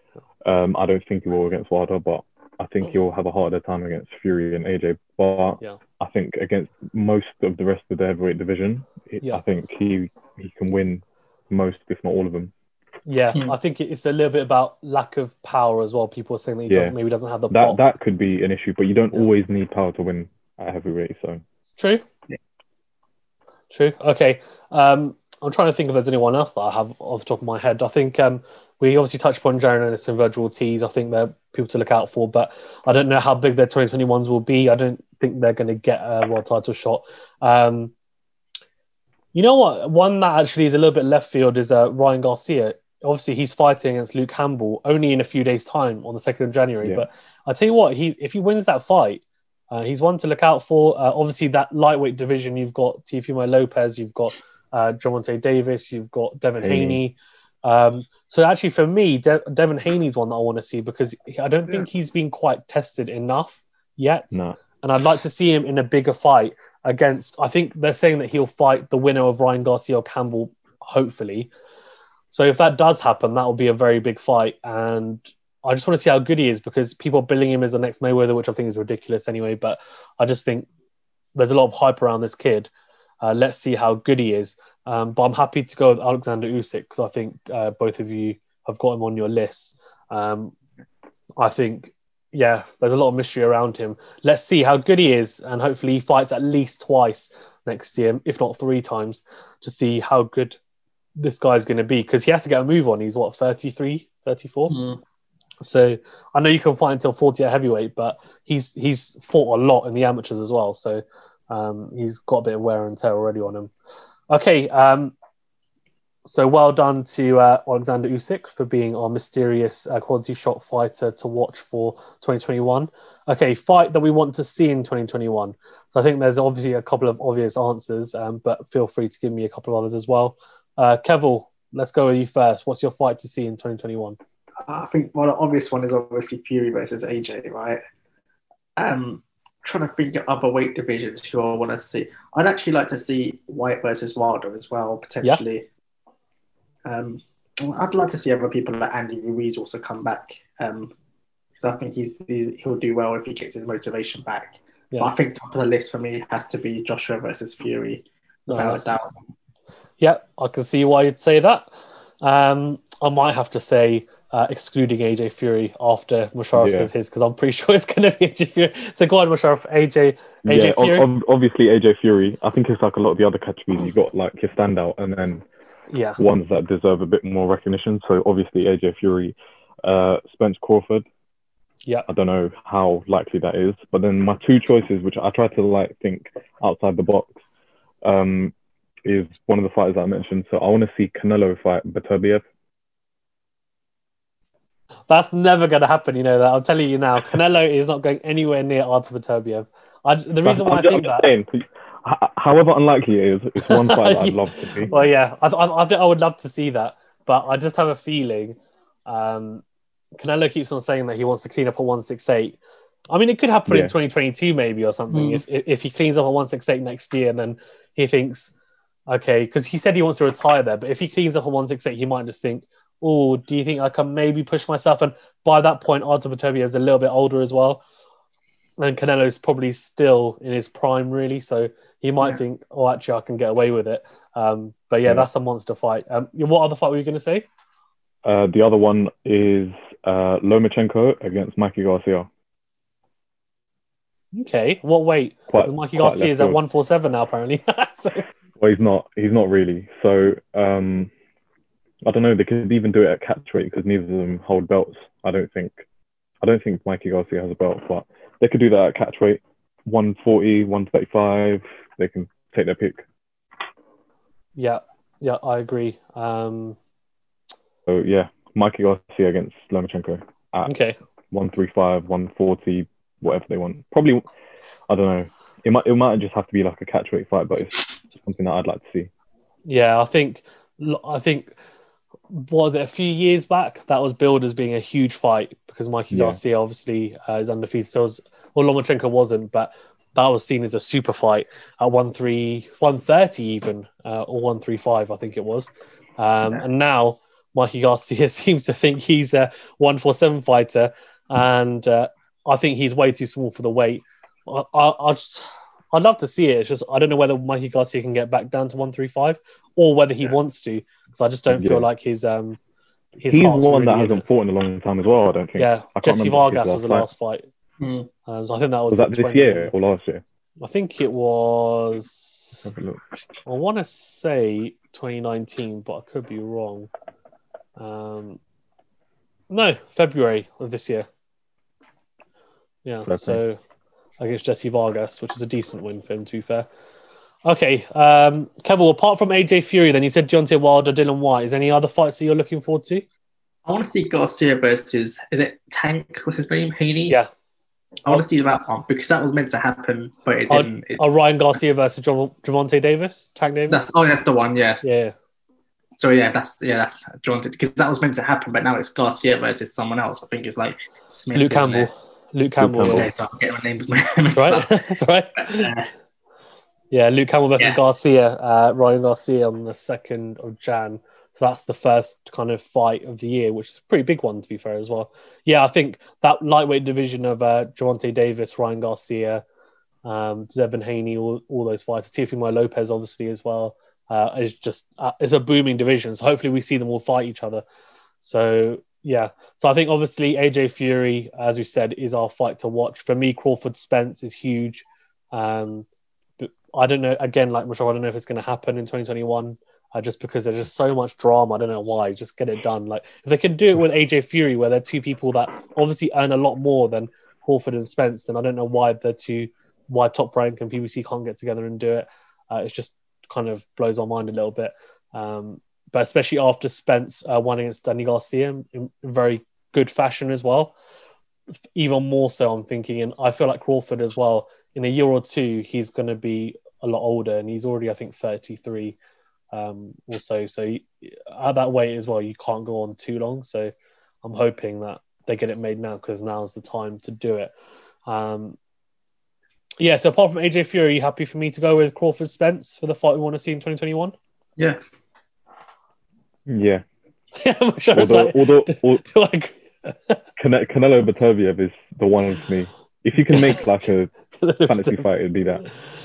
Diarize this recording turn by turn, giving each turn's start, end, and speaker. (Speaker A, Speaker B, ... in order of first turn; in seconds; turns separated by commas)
Speaker A: 0.4-12.5, Speaker B: 13.1-17.8, Speaker A: 16.7-16.9, Speaker A: 17.5-21.4, Speaker B: 21.8-22.0, Speaker B: 23.7-37.9, Speaker B: 39.3-71.5, Speaker A: 56.6-57.0, Speaker A: 64.3-64.6, Speaker B: 72.3-80.7, Speaker B: 81.3-82.7, Speaker B: 83.2-90.5, Speaker B: 91.4-100.6, Speaker B: 101.2-104.8, Speaker C: 104.7-105.0, Speaker B: 105.6-113.7, Speaker B: 114.3-115.1, Speaker B: 116.3-134.2, Speaker C: 134.7-137.8, Speaker C: 138.8-145.7, Speaker C: 146.8-150.9, Speaker C: 151.6-159.1, Speaker B: 158.5-159.0, Speaker B: 160.0-161.7, Speaker B: 162.2-171.1, Speaker A: 166.5-166.9, Speaker A: 170.5-175.4, Speaker B: 175.9-176.2, Speaker A: 176.2-181.1, Speaker A: 182.1-187.3, Speaker A: 188.0-188.5, Speaker A: 189.1-192.4, Speaker B: 195.1-201.3, Speaker A: 200.4-204.9, Speaker B: 203.6-209.6, Speaker B: 210.2-212.6, Speaker B: 213.1-218.5, Speaker A: 213.7-213.9, Speaker C: 215.1-215.4, Speaker B: 219.1-227.8, Speaker B: 228.8-237.5, Speaker A: 238.2-242.3, Speaker B: 244.3-248.3, Speaker A: 245.5-246.6, Speaker A: 248.6-251.1, Speaker A: 252.0-255.8, Speaker A: 256.4-263.0, Speaker B: 264.6-266.8, Speaker A: 267.9-270.7, Speaker B: 270.6-271.0, Speaker A: 271.3-274.3, Speaker A: 274.9-279.1, Speaker B: 279.7-281.6, Speaker B: 282.3-312.6, Speaker A: 286.1-286.4, Speaker A: 311.5-311.9, Speaker B: 313.2-314.2, Speaker A: 313.3-317.1, Speaker B: 315.6-317.5, Speaker C: 317.8-318.1, Speaker B: 318.3-319.7, Speaker A: 318.9-320.2, Speaker B: 320.6-322.7, Speaker A: 322.6-323.0, Speaker B: 323.5-326.9, Speaker B: 327.8-328.4, Speaker B: 329.5-331.1, Speaker B: 332.9-333.6, Speaker A: 333.1-333.4, Speaker B: 334.2-336.7, Speaker B: 337.5-343.1, Speaker C: 343.7-347.2, Speaker C: 348.1-351.0, Speaker B: 350.5-353.8, Speaker C: 353.7-355.0, Speaker B: 354.8-355.1, Speaker C: 356.0-361.9, Speaker B: 361.4-363.1, Speaker A: 362.6-363.1, Speaker C: 362.9-364.8, Speaker B: 364.4-365.7, Speaker C: 365.4-365.9, Speaker B: 366.9-379.4, Speaker B: 380.1-387.6, Speaker B: 388.2-395.9, Speaker B: 396.4-420.7, Speaker B: 421.8-429.0, Speaker B: 429.5-433.7, Speaker B: 434.2-437.5, Speaker B: 438.1-438.6, Speaker B: 439.8-444.1, Speaker A: 446.5-446.8, Speaker B: 447.4-450.2, Speaker A: 447.9-449.0, Speaker A: 450.4-454.1, Speaker B: 453.4-453.6, Speaker B: 454.3-455.1, Speaker A: 454.6-455.6